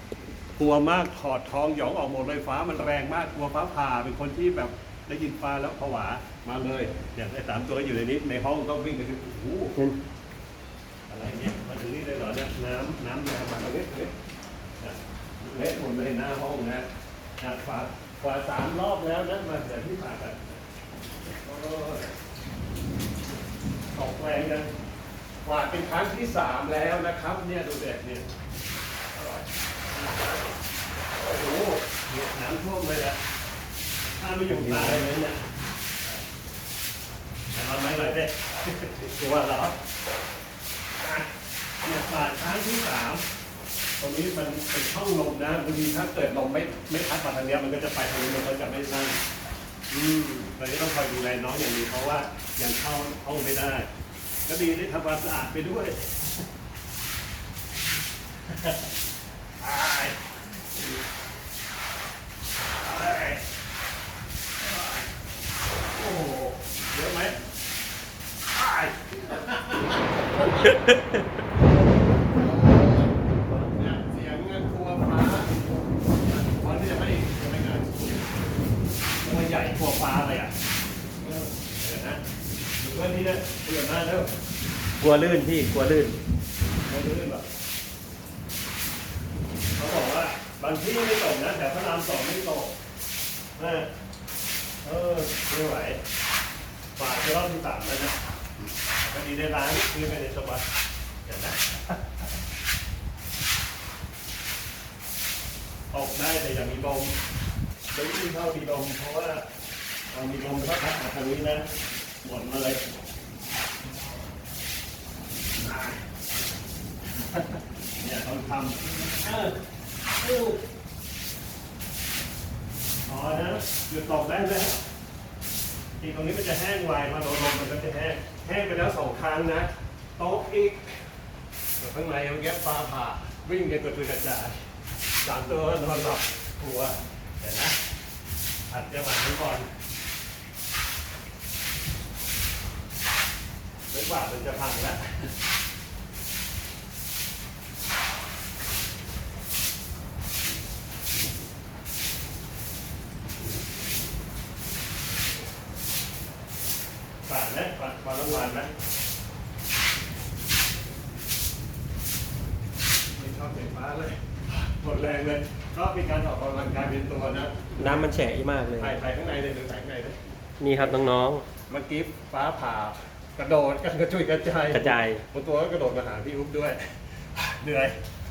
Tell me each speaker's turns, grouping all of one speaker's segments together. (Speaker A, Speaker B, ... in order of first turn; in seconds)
Speaker A: 0.6-9.8, 11.1-14.1, 14.8-16.9, 17.4-20.6, 21.3-22.1, 23.9-24.7, 25.4-28.3, 29.1-30.4, 31.2-33.2, 34.2-35.4, 37.5-39.8, 41.0-43.2, 44.0-49.2, 49.9-53.9, 54.5-56.4, 58.5-58.9, 59.6-61.0, 62.8-63.4, 64.7-65.0, 65.9-67.4, 68.5-78.1, 79.2-80.5, 81.2-82.2, 82.8-84.3, 86.8-87.5, 89.8-92.7, 93.5-93.9, 94.8-96.0, 97.0-98.2, 99.0-100.7, 101.2-102.2, 105.9-107.2, 107.9-109.5, 110.1-111.7, 112.2-112.8, 115.6-116.0, 117.2-119.6, 120.2-120.6, 123.0-124.8, 126.0-131.0, 131.8-134.6, 135.2-137.8, 138.7-139.7, 143.9-145.3, 157.2-158.7, 163.2-168.1, 168.8-170.2, 170.8-171.1, 171.7-177.9
Speaker B: 34.5-35.2, 85.0-86.2, 167.8-168.9, 170.6-171.4, 174.7-175.2